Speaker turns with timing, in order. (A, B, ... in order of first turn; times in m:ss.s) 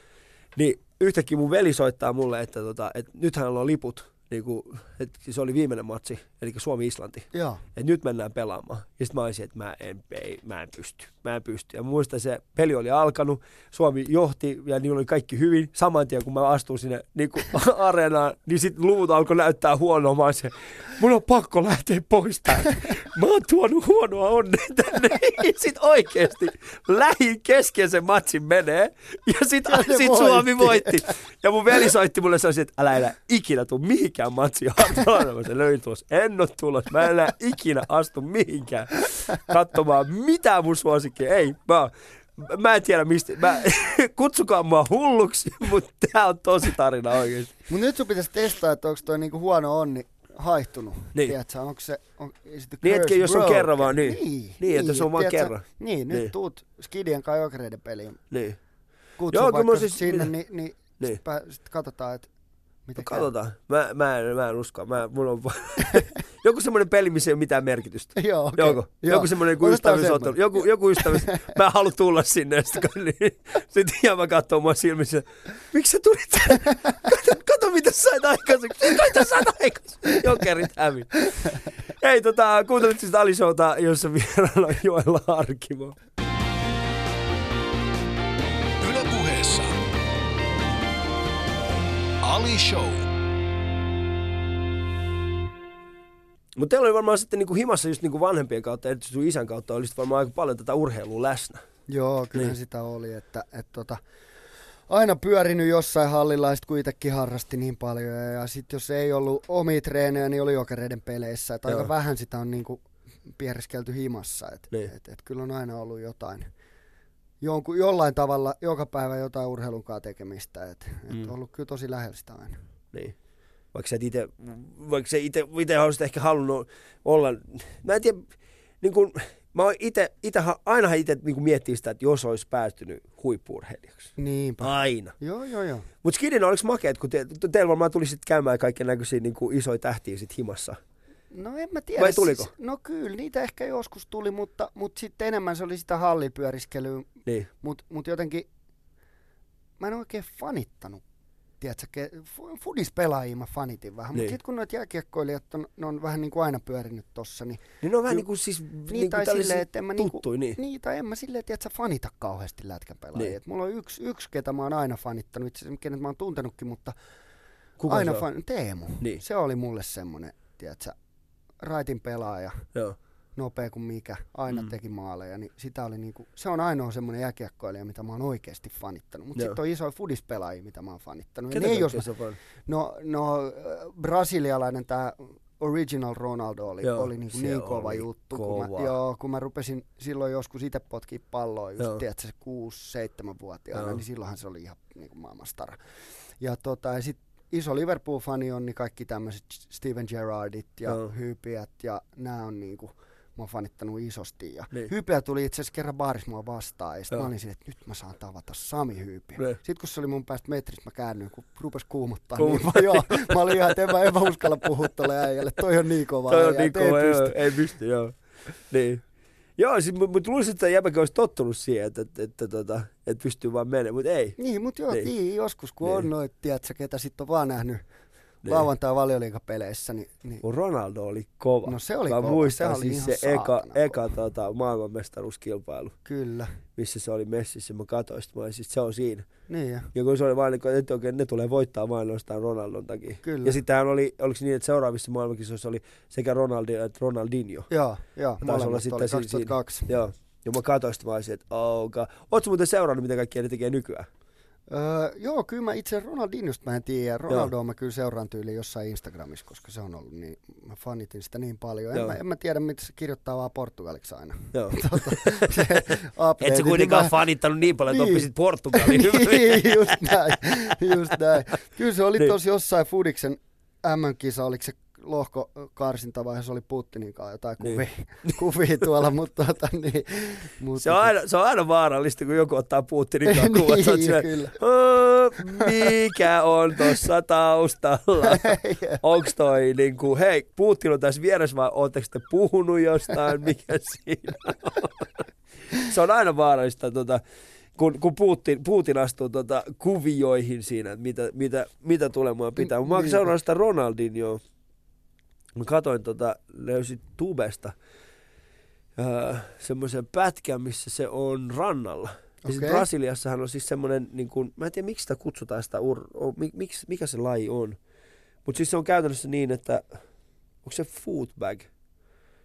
0:00.6-0:47.5 A
0:07.3-0:07.6 B
0:29.6-0:31.0 B
0:47.7-0:58.2 B
0:52.8-0:56.3 A
0:58.3-0:58.6 A
0:59.2-1:02.3 B
0:59.3-1:00.3 A
1:02.8-1:03.3 B
1:03.0-1:21.4 A
1:08.2-1:11.5 B
1:21.9-1:26.0 A
1:28.8-1:29.8 C
1:32.2-1:33.1 C
1:36.5-1:41.6 A
1:41.9-1:44.0 B
1:44.9-1:56.5 B
1:57.4-2:02.6 B
2:03.7-2:08.3 A
2:08.8-2:15.1 A
2:14.2-2:15.9 B
2:16.0-2:20.8 A
2:21.3-2:28.5 B
2:22.0-2:22.5 A
2:29.8-2:31.0 B
2:31.6-2:38.3 B
2:37.8-2:40.6 A
2:38.9-2:47.0 B
2:47.8-2:48.2 A
2:47.9-2:50.9 B
2:51.6-2:52.7 B
2:53.4-3:37.4 B
3:01.5-3:02.4 A
3:06.8-3:09.0 A
3:13.7-3:14.0 A
3:20.9-3:21.1 A
3:32.4-3:33.8 A
3:36.3-3:39.0 A
3:39.6-3:44.4 A
3:44.4-3:47.8 B
3:48.4-3:50.4 B
3:50.4-3:56.0 A
3:51.6-3:54.0 B
3:56.0-3:56.5 B
3:56.8-3:59.3 A
3:59.5-3:59.9 B
3:59.9-4:07.7 A
4:03.2-4:03.6 B
4:07.7-4:09.9 B
4:08.4-4:14.1 A
4:14.7-4:27.2 B
4:24.5-4:25.8 A
4:26.4-4:30.3 A
4:27.9-4:41.1 B
4:37.6-4:38.3 A
4:40.8-4:57.2 A
4:43.2-4:44.6 B
4:45.6-4:45.9 B
4:48.2-4:49.0 B
4:57.8-5:04.4 A
5:02.6-5:03.3 B
5:05.5-5:07.8 A
5:09.0-5:17.8 A
5:12.4-5:12.8 B
5:18.4-5:20.0 A
5:20.6-5:21.7 A